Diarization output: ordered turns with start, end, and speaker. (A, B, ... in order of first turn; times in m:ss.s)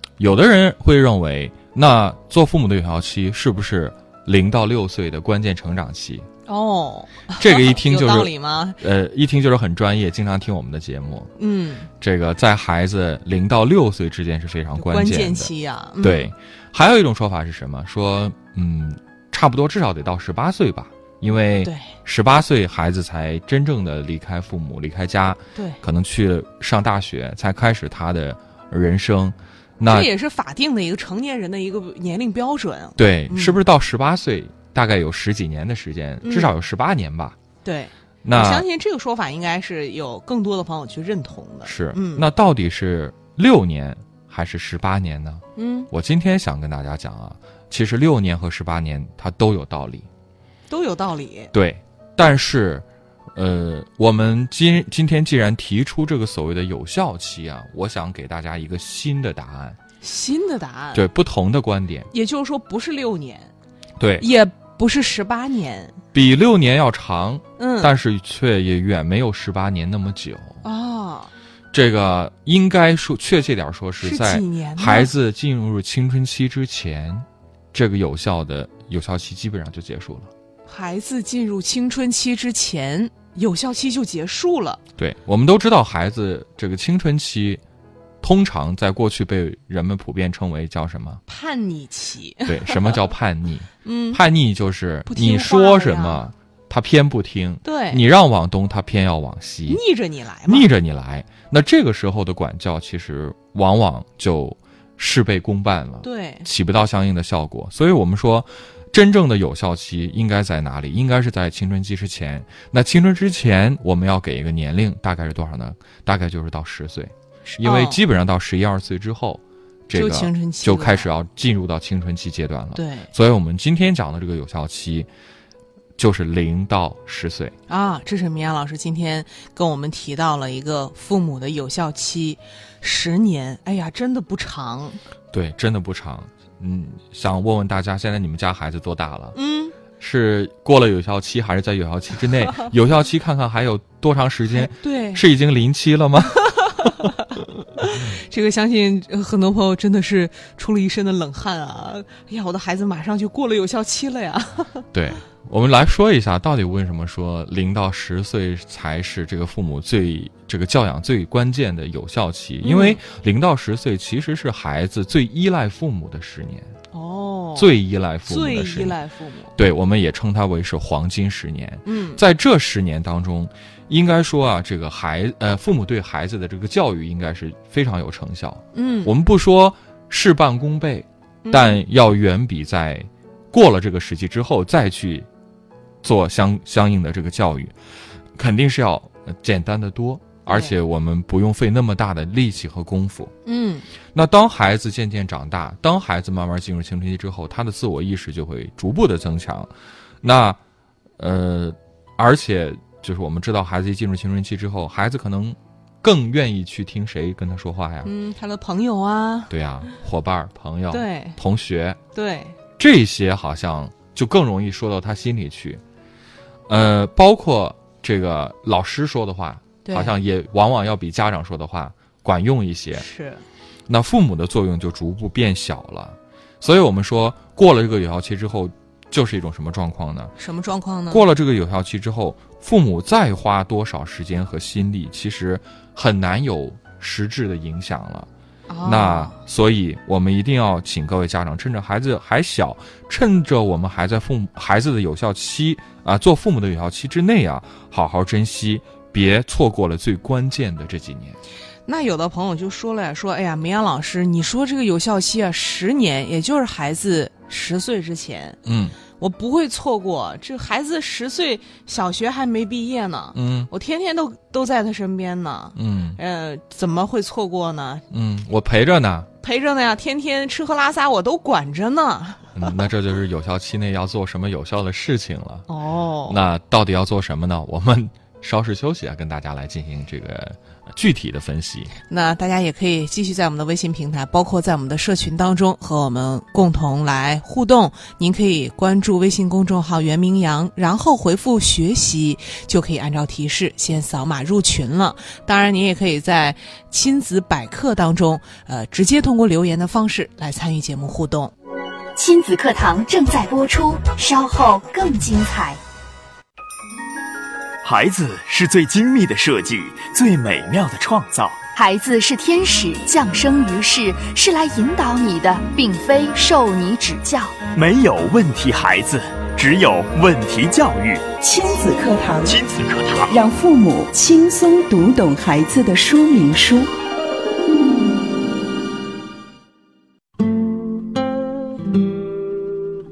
0:00.2-0:06.3 A
0:06.5-0:08.8 B
0:07.4-0:11.3 A
0:11.4-0:11.9 B
0:12.0-0:30.1 A
0:14.8-0:16.3 B
0:21.6-0:21.9 B
0:25.5-0:25.8 B
0:29.8-0:33.6 B
0:33.0-0:37.4 A
0:36.2-0:36.5 B
0:37.6-0:42.2 B
0:38.2-0:38.6 A
0:41.6-0:50.1 A
0:45.6-0:45.9 B
0:50.7-0:51.5 B
0:51.5-0:59.8 A
1:00.0-1:01.0 B
1:00.9-1:02.1 A
1:02.1-1:03.5 B
1:04.0-1:04.2 A
1:04.2-1:06.0 B
1:06.1-1:10.6 A
1:07.6-1:07.9 B
1:10.6-1:11.3 B
1:11.7-1:20.3 A
1:14.0-1:15.1 B
1:20.7-1:24.8 B
1:25.0-1:27.6 A
1:28.2-1:31.2 A
1:31.3-1:33.0 B
1:32.5-1:39.8 A
1:33.8-1:34.2 B
1:35.1-1:36.2 B
1:37.6-1:38.0 B
1:39.7-1:40.7 B
1:40.4-2:05.1 A
1:46.0-1:46.5 B
1:57.5-1:58.0 B
1:59.9-2:01.1 B
2:02.7-2:03.1 B
2:06.0-2:07.5 A
2:07.7-2:15.0 B
2:15.3-2:19.4 A
2:19.3-2:19.7 B
2:20.0-2:27.0 A
2:24.5-2:25.2 B
2:26.4-2:27.2 B
2:27.8-2:34.8 B
2:34.9-2:46.7 A
2:42.6-2:43.0 B
2:46.9-2:47.7 B
2:47.6-2:49.0 A
2:48.3-2:49.5 B
2:49.6-3:05.3 A
2:51.8-2:52.2 B
2:58.7-2:59.1 B
3:01.4-3:01.8 B
3:06.0-3:07.8 A
3:08.4-3:13.3 A
3:13.4-3:13.8 B
3:14.1-3:19.7 A
3:20.2-3:20.6 A
3:21.2-3:28.1 A
3:28.0-3:29.5 B
3:29.5-3:32.0 A
3:30.9-3:31.4 B
3:32.1-3:32.6 B
3:32.8-3:35.8 A
3:36.7-3:43.0 A
3:39.8-3:40.1 B
3:42.9-3:43.4 B
3:43.9-3:50.3 A
3:50.4-3:51.2 B
3:51.1-3:58.3 A
3:58.7-3:59.4 B
3:58.8-4:11.4 A
4:11.9-4:18.6 B
4:18.6-4:19.0 A
4:19.2-4:28.0 B
4:23.3-4:23.7 A
4:25.8-4:26.2 A
4:28.1-4:29.3 A
4:29.4-4:32.6 B
4:32.5-4:35.7 A
4:35.7-4:36.4 B
4:36.3-4:41.9 A
4:42.1-5:01.5 B
5:02.1-5:05.8 C
5:07.8-5:11.6 D
5:11.7-5:17.6 C
5:17.7-5:21.3 D
5:21.4-5:22.6 E
5:22.4-5:23.3 D
5:23.3-5:26.9 E